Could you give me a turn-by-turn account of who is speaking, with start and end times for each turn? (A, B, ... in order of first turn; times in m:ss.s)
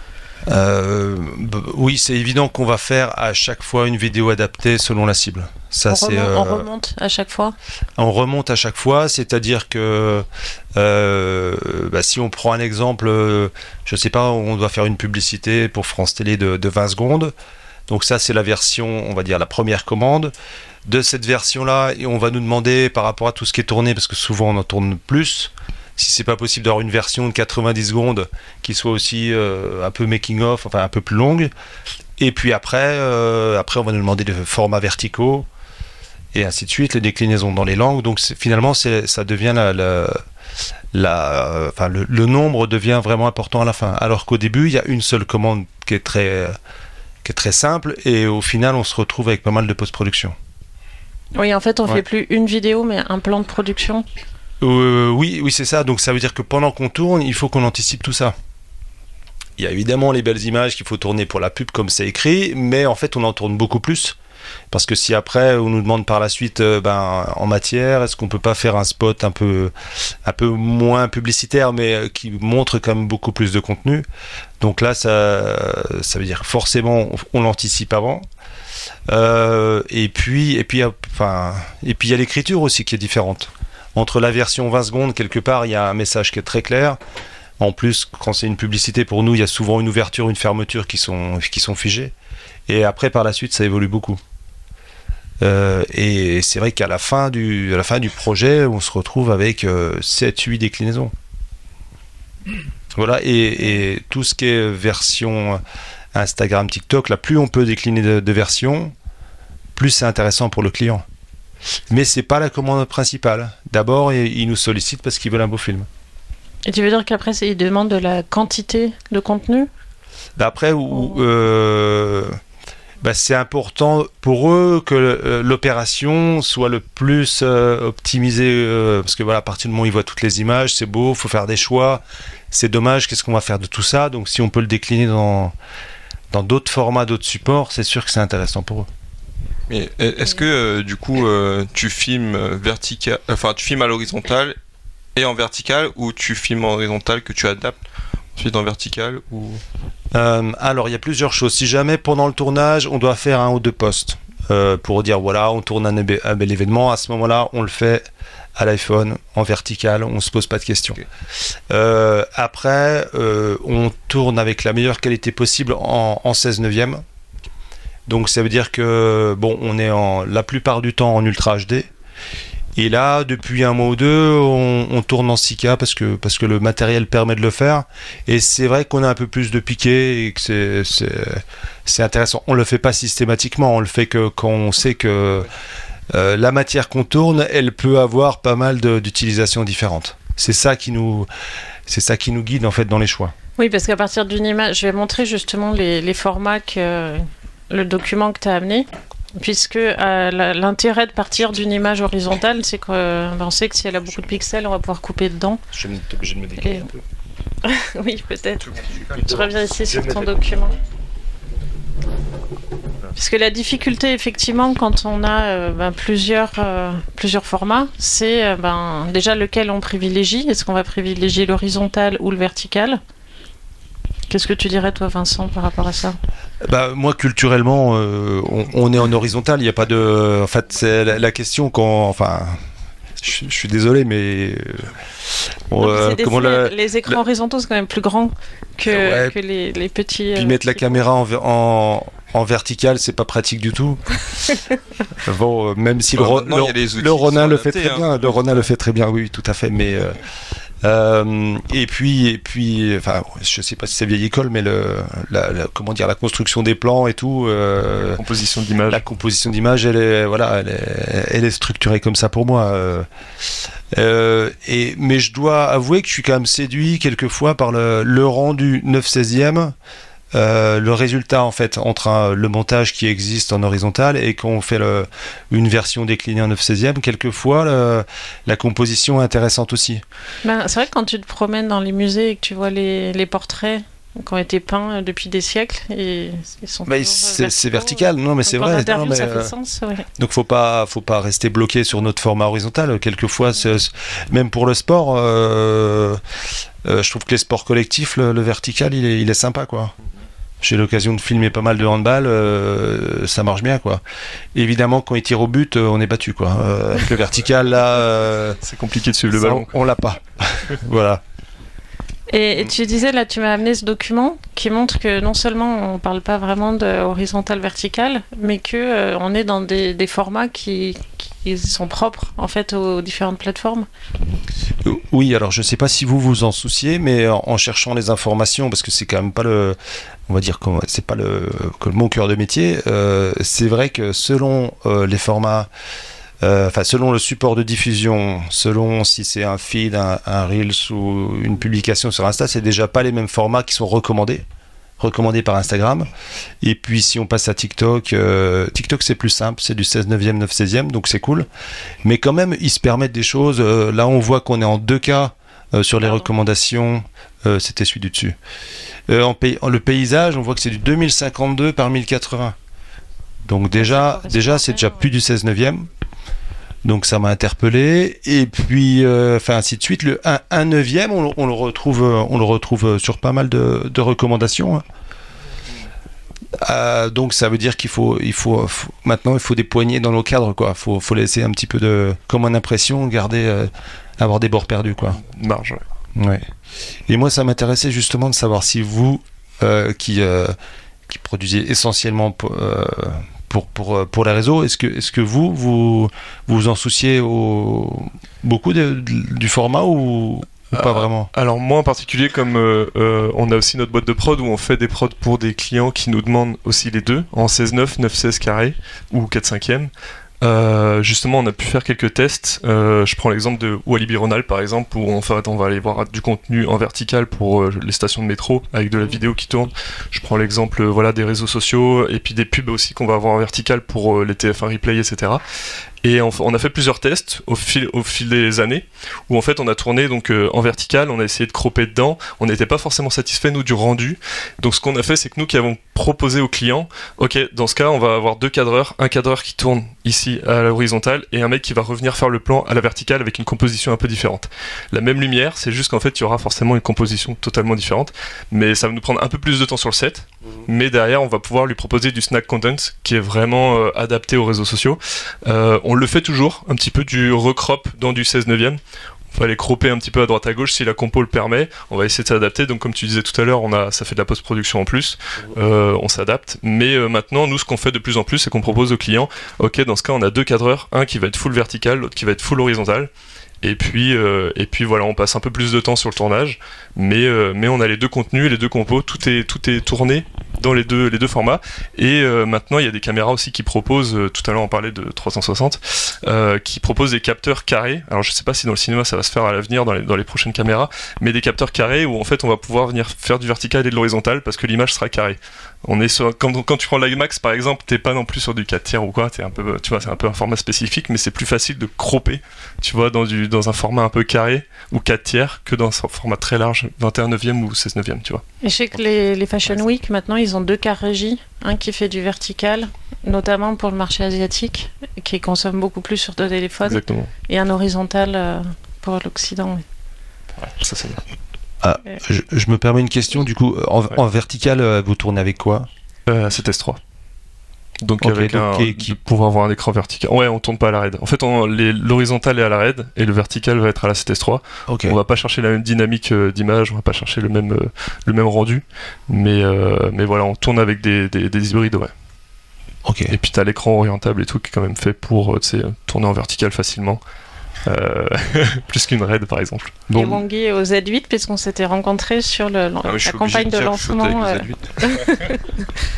0:00.5-0:06.6 A
0:05.9-0:07.5 B
0:08.0-0:17.3 A
0:17.9-0:20.3 A
0:20.8-0:31.5 A
0:32.2-0:35.5 A
0:36.3-0:40.2 A
0:40.9-0:46.6 A
0:47.2-0:50.4 A
0:51.4-0:54.0 B
0:54.6-0:58.4 A
0:59.6-1:04.2 A
1:04.7-1:14.1 A
1:14.6-1:18.3 A
1:19.1-1:27.0 A
1:27.6-1:32.1 A
1:32.7-1:34.2 A
1:35.4-1:41.1 A
1:42.9-1:45.6 A
1:46.1-1:48.9 A
1:49.7-1:51.0 A
1:51.9-1:55.9 A
1:56.7-1:59.7 B
2:00.4-2:02.4 A
2:00.9-2:01.2 B
2:03.0-2:15.5 A
2:16.3-2:18.9 A
2:19.7-2:24.6 C
2:25.1-2:27.8 C
2:28.3-2:29.6 C
2:30.1-2:41.0 A
2:41.7-2:47.0 A
2:48.1-2:51.9 A
2:52.8-3:05.5 A
3:06.1-3:11.3 A
3:11.9-3:13.3 A
3:13.6-3:25.6 B
3:25.7-3:27.0 A
3:26.6-3:26.9 B
3:27.6-3:30.7 B
3:28.7-3:30.4 A
3:33.2-3:43.0 B
3:44.3-3:46.2 B
3:46.6-3:52.6 A
3:53.2-3:54.9 A
3:55.7-3:57.2 A
3:55.8-4:00.8 B
3:58.8-3:59.3 A
4:00.3-4:04.2 A
4:05.2-4:10.2 A
4:06.1-4:08.7 C
4:10.8-4:18.2 A
4:18.2-4:19.0 D
4:18.9-4:23.1 A
4:23.9-4:29.7 A
4:30.3-4:40.0 A
4:40.4-4:50.1 B
4:46.8-4:49.5 A
4:50.2-4:56.2 A
4:56.8-4:59.9 A
5:00.6-5:04.0 A
5:04.5-5:08.6 A
5:08.6-5:09.8 D
5:09.3-5:11.2 A
5:12.3-5:23.9 B
5:24.8-5:35.7 A
5:36.4-5:44.4 A
5:45.0-5:46.1 A
5:46.6-5:51.5 A
5:52.0-5:58.4 A
5:56.0-5:56.3 B
5:59.1-6:02.6 A
6:03.4-6:05.9 A
6:03.7-6:05.2 B
6:06.8-6:14.8 A
6:16.6-6:25.2 A
6:25.2-6:25.8 D
6:26.1-6:26.5 A
6:27.1-6:30.6 A
6:31.1-6:41.3 A
6:40.7-6:49.9 D
6:50.4-7:05.4 D
7:06.0-7:38.8 D
7:39.3-7:53.1 D
7:53.6-8:28.4 D
8:28.6-8:39.8 B
8:36.8-8:37.3 D
8:40.6-8:41.2 D
8:41.8-8:45.9 A
8:46.3-8:47.0 D
8:48.0-9:02.1 D
8:48.2-8:49.2 A
8:54.9-8:55.2 A
9:03.0-9:03.3 A
9:03.3-9:07.2 D
9:07.8-9:10.0 D
9:10.1-9:10.4 A
9:10.1-9:15.7 B
9:13.0-9:15.3 C